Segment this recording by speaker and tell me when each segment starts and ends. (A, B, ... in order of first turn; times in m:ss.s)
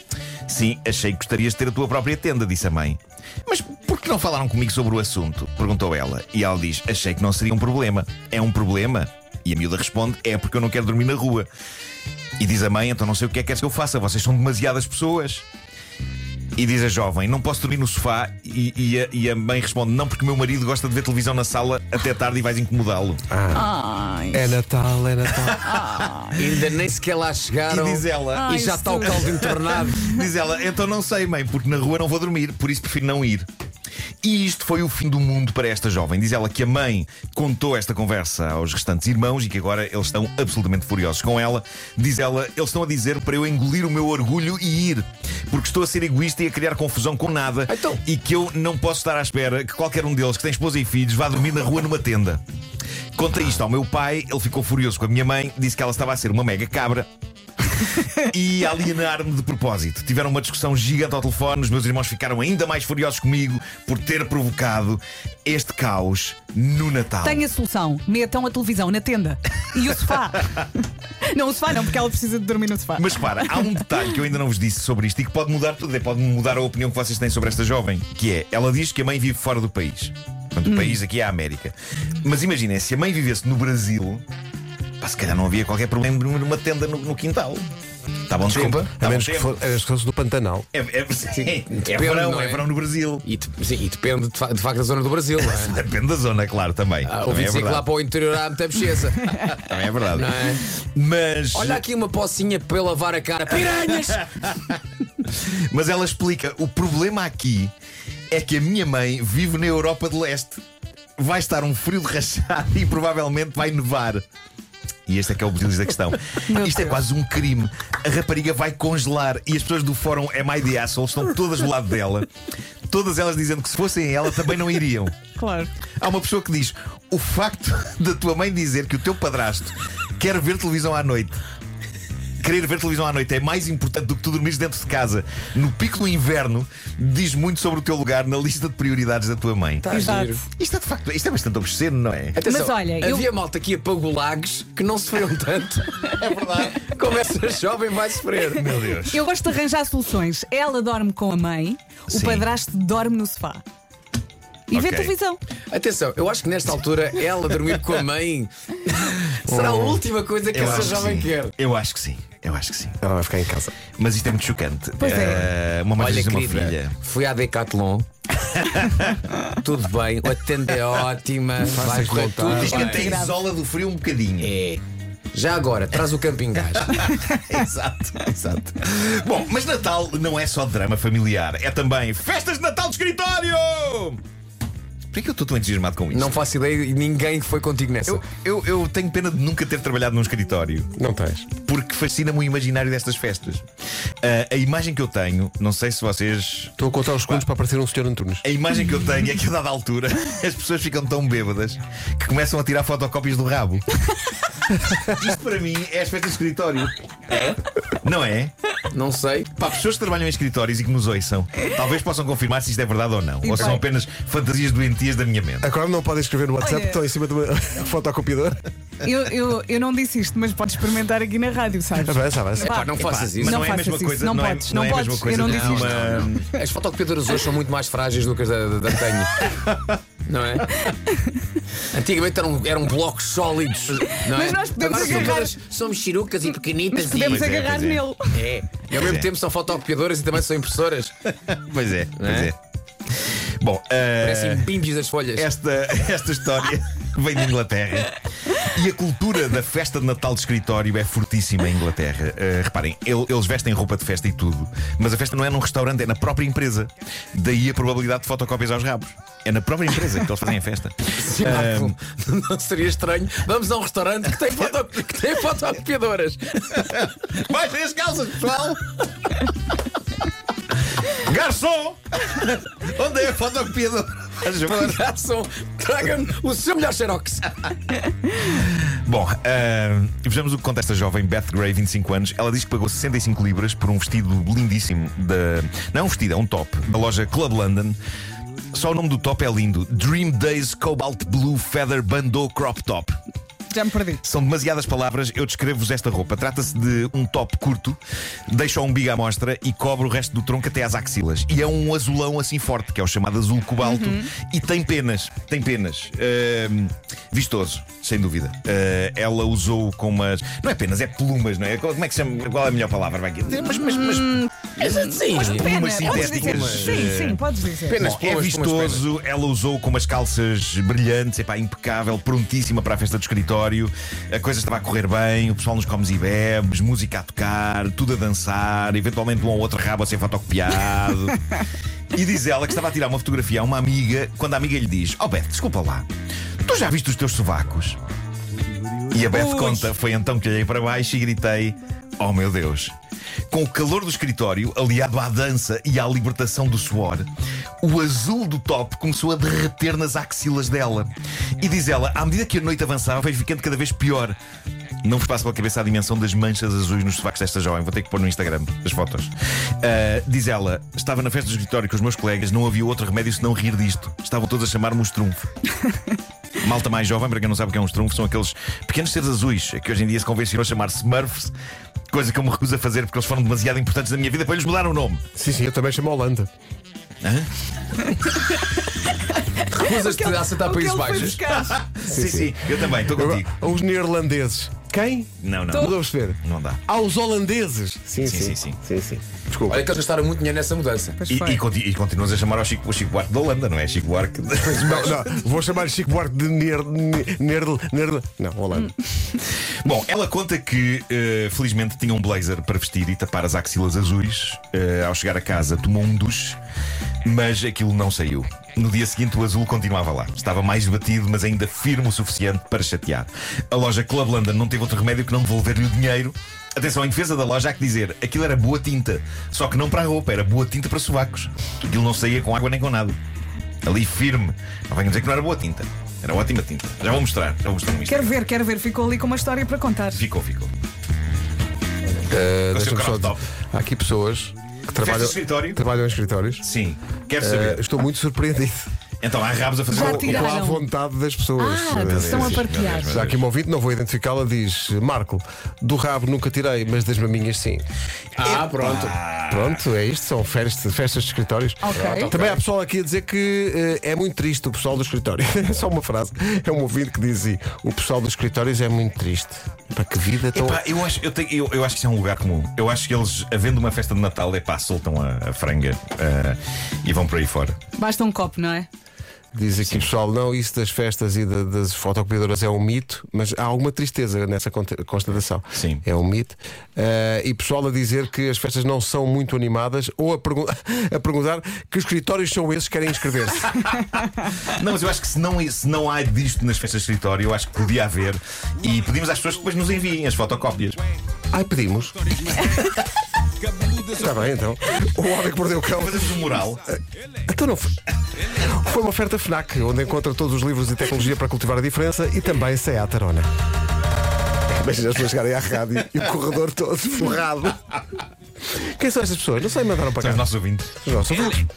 0:00.5-0:11.5 A
0:12.4-0:15.4 A
0:16.6-0:23.2 A
0:23.3-0:23.7 B
0:23.5-0:24.6 C
0:24.3-0:25.7 B
0:25.3-0:26.1 A
0:25.7-0:26.4 C
0:26.3-0:30.0 D
0:27.7-0:28.5 A
0:28.3-0:30.3 C
0:29.2-0:33.5 A
0:34.2-0:52.4 A
0:47.7-0:48.0 D
0:53.1-0:57.1 A
0:58.2-1:07.4 A
1:07.2-1:13.7 C
1:13.0-1:24.2 A
1:25.0-1:27.7 A
1:28.3-1:29.8 A
1:28.5-1:28.9 D
1:29.0-1:30.7 B
1:30.7-1:33.2 A
1:31.3-1:32.7 D
1:33.2-1:35.7 D
1:35.4-1:37.9 A
1:37.0-1:39.6 D
1:39.5-1:41.8 A
1:40.1-1:40.6 D
1:41.5-1:44.4 D
1:44.0-1:47.7 A
1:48.3-1:50.6 A
1:51.2-1:54.2 A
1:55.1-2:02.3 A
1:56.5-1:57.0 C
2:02.9-2:05.2 A
2:05.4-2:05.7 C
2:06.0-2:11.4 A
2:12.4-2:19.9 A
2:19.8-2:20.4 D
2:19.9-2:20.4 C
2:20.5-2:22.4 A
2:22.3-2:28.7 D
2:22.4-2:23.2 C
2:26.2-2:26.8 A
2:28.5-2:29.2 A
2:28.9-2:33.6 C
2:32.1-2:32.5 A
2:34.7-2:35.4 C
2:34.7-2:35.1 A
2:35.7-2:41.5 D
2:39.5-2:40.0 B
2:40.5-2:43.0 A
2:43.0-2:43.7 B
2:44.0-2:47.0 A
2:45.0-2:45.4 C
2:45.1-2:45.4 D
2:46.0-2:48.1 D
2:48.5-2:49.2 A
2:49.6-2:53.1 D
2:51.6-2:52.8 B
2:52.4-2:54.5 A
2:52.6-2:53.4 C
2:54.4-2:54.8 D
2:55.3-2:57.0 D
2:56.7-3:04.2 A
3:05.1-3:06.3 A
3:06.1-3:08.2 D
3:08.0-3:10.9 A
3:11.0-3:11.5 B
3:11.6-3:13.6 A
3:14.2-3:17.4 A
3:16.8-3:18.4 B
3:18.4-3:23.8 A
3:24.9-3:26.9 A
3:27.3-3:27.6 D
3:28.0-3:28.5 A
3:28.9-3:29.5 D
3:29.5-3:35.7 A
3:33.4-3:33.8 C
3:35.6-3:38.6 B
3:36.6-3:37.0 C
3:39.0-3:46.2 C
3:42.0-3:42.7 B
3:42.6-3:43.6 D
3:43.0-3:46.4 A
3:45.3-3:49.5 D
3:49.5-3:50.0 A
3:50.2-3:50.8 D
3:50.9-3:51.3 C
3:51.9-3:57.6 D
3:54.2-3:55.6 C
3:56.9-3:58.4 C
3:57.2-3:58.0 A
3:58.3-4:01.1 D
3:58.9-3:59.3 A
4:01.3-4:02.6 A
4:02.2-4:02.5 D
4:03.2-4:04.7 A
4:04.2-4:05.5 D
4:05.3-4:22.0 A
4:21.2-4:27.0 D
4:26.8-4:28.8 A
4:31.0-4:35.0 A
4:34.5-4:38.0 D
4:38.4-4:48.0 A
4:48.7-4:53.2 A
4:53.7-4:54.2 C
4:54.2-5:17.4 A
5:03.8-5:04.3 C
5:13.8-5:18.1 C
5:14.8-5:17.3 D
5:17.8-5:19.0 D
5:18.0-5:31.4 A
5:32.1-5:36.1 A
5:36.6-5:38.0 A
5:39.1-5:42.9 A
5:39.3-5:39.9 C
5:43.5-5:47.3 A
5:47.8-5:54.4 A
5:55.0-6:05.5 A
6:06.6-6:11.5 A
6:12.1-6:15.2 A
6:15.3-6:16.5 B
6:17.2-6:17.5 A
6:18.1-6:21.8 C
6:19.7-6:21.4 D
6:21.4-6:23.6 A
6:22.0-6:29.8 B
6:25.4-6:26.8 A
6:28.2-6:28.8 A
6:29.7-6:31.2 D
6:31.2-6:31.6 C
6:31.3-6:35.3 A
6:34.6-6:35.2 D
6:34.8-6:39.0 B
6:39.6-6:46.6 A
6:47.2-7:03.2 A
7:03.8-7:08.4 A
7:08.1-7:10.2 C
7:10.1-7:10.7 A
7:12.3-7:16.7 B
7:12.7-7:13.4 A
7:14.9-7:15.8 A
7:16.6-7:17.8 A
7:17.4-7:18.9 B
7:19.2-7:20.6 A
7:19.9-7:20.8 C
7:19.9-7:27.8 B
7:21.6-7:23.3 C
7:22.0-7:23.4 A
7:28.4-7:29.1 D
7:28.4-7:29.8 A
7:29.5-7:40.8 B
7:31.8-7:32.3 C
7:31.9-7:32.6 D
7:40.5-7:47.8 A
7:48.0-7:48.9 C
7:49.5-8:03.9 B
7:55.7-7:56.0 A
8:04.6-8:11.0 A
8:11.5-8:12.2 B
8:12.1-8:13.0 E
8:13.6-8:14.6 E
8:14.1-8:18.0 B
8:15.9-8:16.9 A
8:18.6-8:23.5 B
8:24.7-8:27.9 B
8:28.7-8:31.6 B
8:30.2-8:30.9 A
8:31.4-8:31.6 E